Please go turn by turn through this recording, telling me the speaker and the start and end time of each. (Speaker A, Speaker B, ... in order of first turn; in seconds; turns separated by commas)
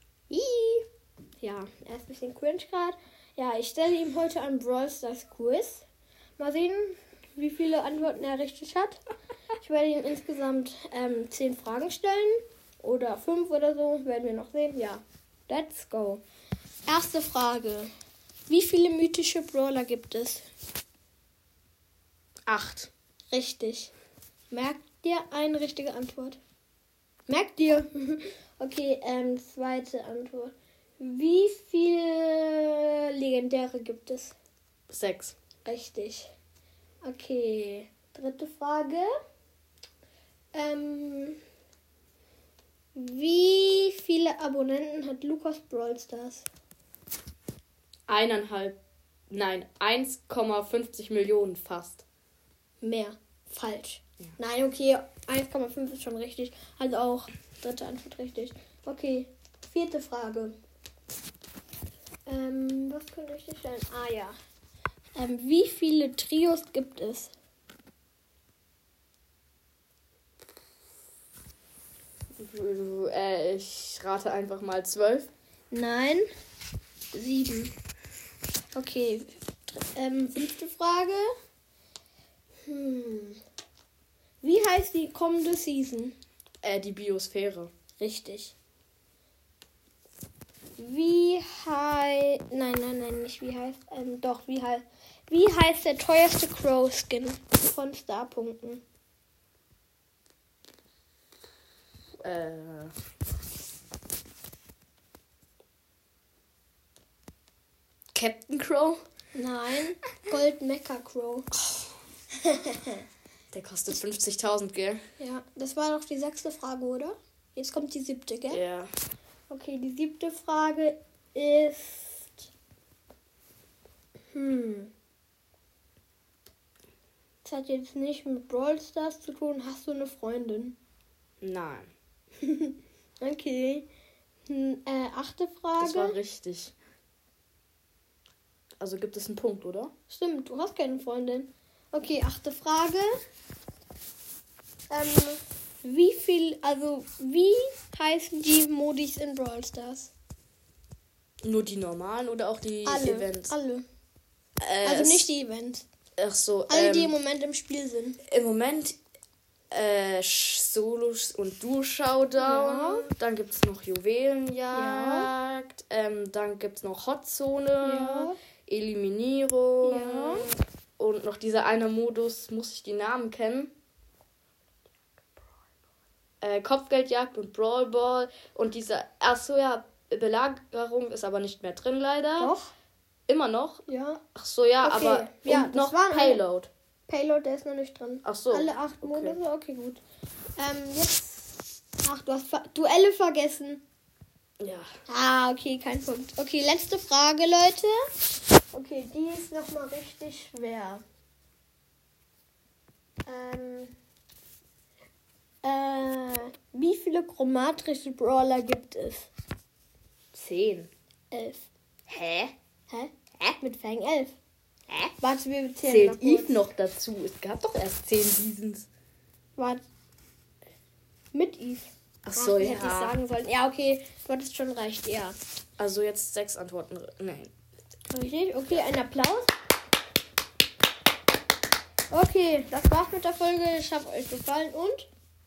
Speaker A: 0.3-0.8, Speaker B: 1.4-5.9, Speaker B: 6.4-9.0, Speaker B: 9.6-16.2, Speaker B: 16.9-17.9, Speaker B: 18.5-20.4, Speaker A: 22.5-22.9, Speaker B: 23.3-23.9, Speaker B: 24.5-26.4, Speaker B: 27.3-34.4, Speaker A: 34.9-35.4, Speaker B: 35.6-36.3, Speaker B: 37.0-39.1, Speaker B: 40.5-41.4, Speaker B: 43.0-46.5, Speaker A: 48.1-48.8, Speaker A: 49.3-52.0, Speaker B: 52.8-60.6, Speaker B: 62.3-64.4, Speaker B: 65.2-67.3, Speaker A: 72.4-75.3, Speaker B: 75.7-76.3, Speaker B: 77.1-77.7, Speaker B: 78.7-81.3, Speaker B: 82.7-83.4, Speaker B: 84.4-86.2, Speaker A: 86.6-87.7, Speaker B: 88.0-88.5, Speaker B: 90.8-98.8, Speaker A: 102.2-102.9, Speaker A: 108.1-109.0, Speaker B: 109.3-111.5, Speaker B: 112.4-113.0, Speaker A: 113.5-115.0, Speaker B: 115.2-118.6, Speaker A: 118.5-118.9, Speaker B: 119.5-122.5, Speaker B: 124.3-124.9, Speaker B: 127.4-130.8, Speaker A: 131.4-131.9, Speaker B: 132.4-133.9, Speaker B: 134.5-136.2, Speaker A: 135.8-136.8, Speaker A: 138.8-139.9, Speaker B: 140.1-143.2, Speaker B: 144.9-150.1, Speaker A: 151.4-153.5, Speaker B: 152.8-153.8, Speaker A: 154.6-155.3, Speaker B: 154.8-155.9, Speaker A: 156.2-157.1, Speaker B: 156.7-158.2, Speaker A: 158.3-159.0, Speaker A: 159.7-173.7, Speaker B: 162.4-163.1, Speaker B: 164.7-165.3, Speaker B: 167.8-168.4, Speaker B: 169.8-170.5, Speaker A: 176.4-182.5, Speaker B: 182.4-182.7, Speaker A: 183.3-183.8, Speaker B: 183.9-184.2, Speaker A: 184.3-186.7, Speaker B: 184.8-186.4, Speaker B: 187.1-190.0, Speaker A: 188.2-189.4, Speaker B: 190.6-193.8, Speaker A: 194.6-194.9, Speaker B: 195.1-198.0, Speaker B: 198.7-201.0, Speaker B: 203.3-203.9, Speaker B: 205.6-209.3, Speaker A: 210.3-210.9, Speaker B: 211.3-211.7, Speaker A: 212.1-212.5, Speaker B: 212.9-214.4, Speaker B: 215.2-216.6, Speaker A: 215.9-218.9, Speaker B: 219.6-219.8, Speaker B: 221.3-225.3, Speaker A: 222.2-223.2, Speaker A: 225.8-227.5, Speaker B: 228.1-229.5, Speaker B: 232.1-235.1